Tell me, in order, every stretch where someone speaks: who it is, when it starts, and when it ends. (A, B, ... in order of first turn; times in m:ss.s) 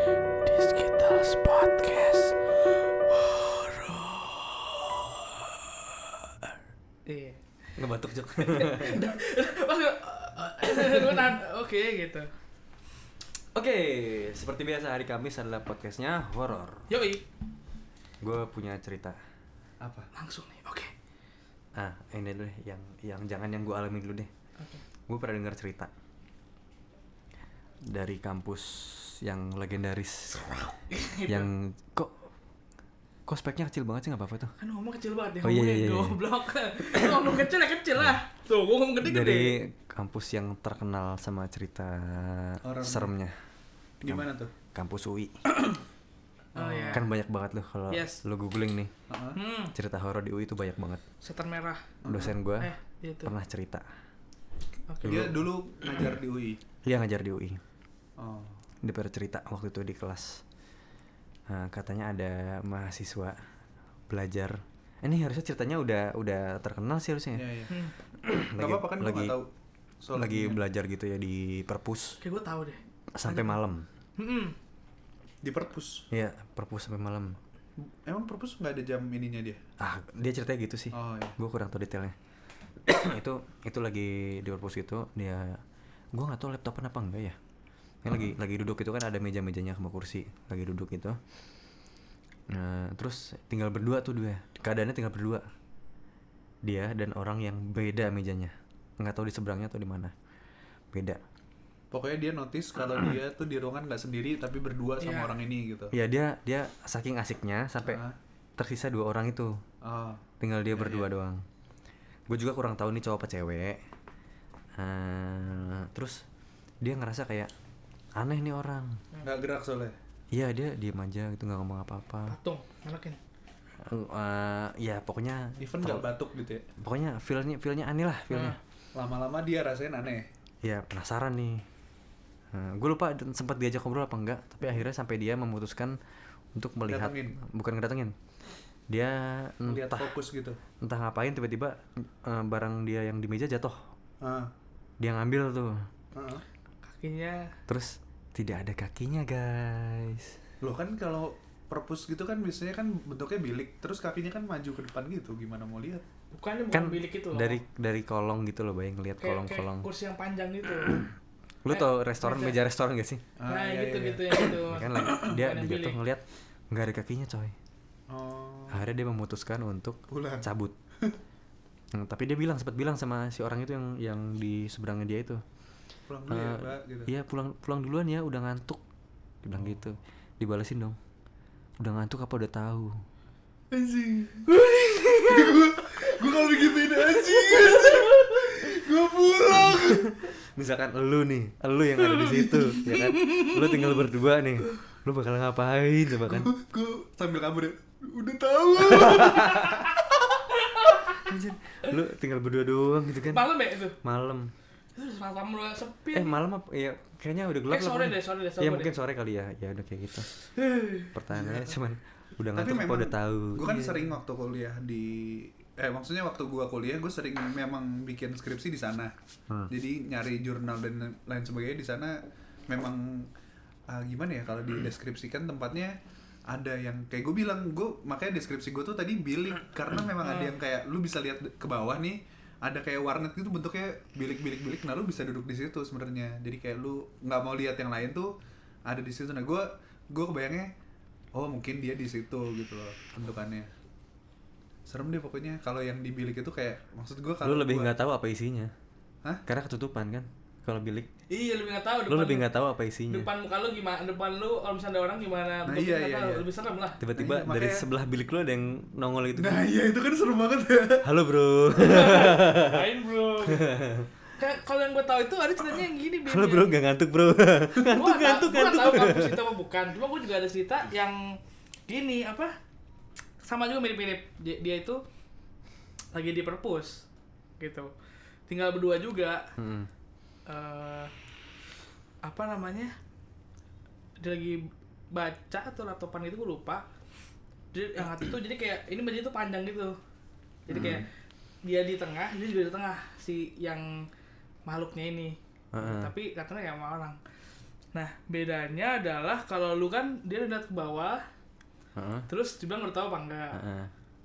0:00.4-0:06.5 A
0:07.1-0:07.4 A
0:07.8-0:09.2 B
0:08.4-0:12.3 A
0:13.5-0:16.9 B
0:16.9-0:17.2 A
0:18.2-0:19.2 B
0:19.8-0:20.1 C
0:20.1-0:20.9 A
0:21.8-0:24.3 B
0:25.1-0:25.9 B
0:27.9-0:30.8 B
0:30.9-0:31.5 A
0:31.3-0:32.3 B
0:33.3-0:34.5 B
0:34.6-0:39.6 A
0:35.4-0:36.2 B
0:36.8-0:37.3 B
0:39.0-0:43.4 B
0:42.6-0:43.1 C
0:44.0-0:44.5 C
0:44.0-0:45.5 B
0:46.6-0:47.0 C
0:46.6-0:47.0 A
0:46.9-0:48.9 B
0:47.9-0:48.2 A
0:49.1-0:49.4 C
0:49.4-0:49.7 A
0:49.7-0:51.0 B
0:51.2-0:51.8 A
0:52.0-0:52.4 C
0:52.1-0:52.7 B
0:52.6-0:53.3 A
0:53.2-0:53.9 B
0:54.9-0:55.3 A
0:55.0-0:56.6 C
0:55.1-0:55.3 B
0:56.8-0:57.6 B
0:58.2-0:58.6 C
0:58.8-1:00.4 B
1:01.5-1:03.4 B
1:04.1-1:07.5 B
1:07.4-1:07.7 C
1:07.7-1:07.9 A
1:08.2-1:09.4 B
1:08.6-1:09.5 C
1:10.0-1:10.6 C
1:10.1-1:12.2 B
1:12.2-1:13.6 A
1:13.1-1:13.9 B
1:14.2-1:14.6 A
1:15.4-1:16.1 C
1:16.1-1:17.4 B
1:18.0-1:19.6 C
1:19.8-1:22.2 B
1:20.9-1:21.4 C
1:22.8-1:25.6 B
1:26.2-1:27.4 B
1:28.0-1:31.2 B
1:32.5-1:35.4 B
1:36.6-1:40.1 B
1:40.9-1:41.2 B
1:41.9-1:45.9 C
1:45.0-1:45.3 A
1:45.9-1:48.0 B
1:47.9-1:48.2 C
1:48.6-1:49.6 B
1:49.8-1:51.1 C
1:50.4-1:51.4 B
1:52.3-1:53.8 B
1:54.8-1:56.2 B
1:56.8-1:57.5 B
1:58.2-1:59.0 B
1:59.2-2:00.0 C
2:00.3-2:02.4 B
2:02.3-2:03.2 A
2:03.8-2:06.1 B
2:05.6-2:06.7 C
2:06.8-2:08.6 B
2:08.3-2:08.6 A
2:09.0-2:10.3 C
2:10.6-2:11.6 B
2:12.5-2:16.0 B
2:16.6-2:18.2 B
2:16.9-2:17.4 C
2:18.9-2:20.1 B
2:19.6-2:20.6 C
2:20.8-2:23.8 B
2:24.2-2:24.5 C
2:25.0-2:25.9 B
2:26.1-2:26.4 C
2:26.9-2:27.6 A
2:27.7-2:30.4 B
2:30.6-2:36.0 C
2:36.3-2:37.6 A
2:36.7-2:39.9 B
2:39.2-2:41.1 A
2:41.6-2:43.3 B
2:41.7-2:42.6 A
2:43.4-2:44.5 C
2:43.5-2:46.0 A
2:44.4-2:47.6 B
2:48.1-2:48.8 C
2:48.7-2:50.8 B
2:50.1-2:50.5 C
2:51.9-2:55.4 B
2:56.1-2:57.1 C
2:56.3-2:58.8 B
2:59.4-3:01.0 B
3:01.8-3:03.0 B
3:03.7-3:04.5 C
3:04.5-3:05.6 A
3:05.2-3:10.3 C
3:06.1-3:08.5 A
3:09.7-3:16.5 B
3:12.2-3:12.8 C
3:12.7-3:14.0 A
3:16.3-3:20.4 C
3:18.8-3:19.8 B
3:19.3-3:20.0 A
3:20.5-3:21.4 A
3:21.2-3:23.5 B
3:23.3-3:24.0 A
3:24.0-3:24.5 B
3:25.0-3:26.3 A
3:26.1-3:30.3 B
3:27.7-3:28.9 A
3:30.6-3:31.1 A
3:31.1-3:34.1 B
3:31.3-3:31.8 C
3:32.6-3:39.1 C
3:39.7-3:43.3 C
3:43.9-3:46.0 C
3:46.5-3:58.3 C
3:50.2-3:50.6 A
3:58.9-4:00.7 C
4:01.4-4:03.7 C
4:04.9-4:07.9 C
4:07.4-4:08.7 B
4:09.5-4:11.1 B
4:11.3-4:12.5 A
4:12.1-4:13.3 B
4:13.1-4:17.0 A
4:15.7-4:16.5 C
4:17.0-4:19.7 B
4:17.2-4:17.8 C
4:19.4-4:21.1 C
4:21.0-4:22.9 B
4:21.7-4:26.8 A
4:23.4-4:24.1 B
4:26.2-4:29.4 B
4:27.9-4:32.6 A
4:33.4-4:35.0 A
4:36.1-4:37.0 A
4:37.6-4:37.9 A
4:38.5-4:39.5 A
4:39.6-4:39.9 B
4:40.5-4:41.1 A
4:42.2-4:43.0 A
4:44.2-4:44.6 A
4:45.1-4:46.8 A
4:47.7-4:50.0 A
4:50.7-4:51.1 A
4:50.7-4:51.1 B
4:51.6-4:54.0 A
4:54.7-4:57.2 A
4:55.7-4:56.1 B
4:57.9-5:01.2 A
5:02.0-5:02.3 B
5:02.3-5:03.6 A
5:03.5-5:03.9 B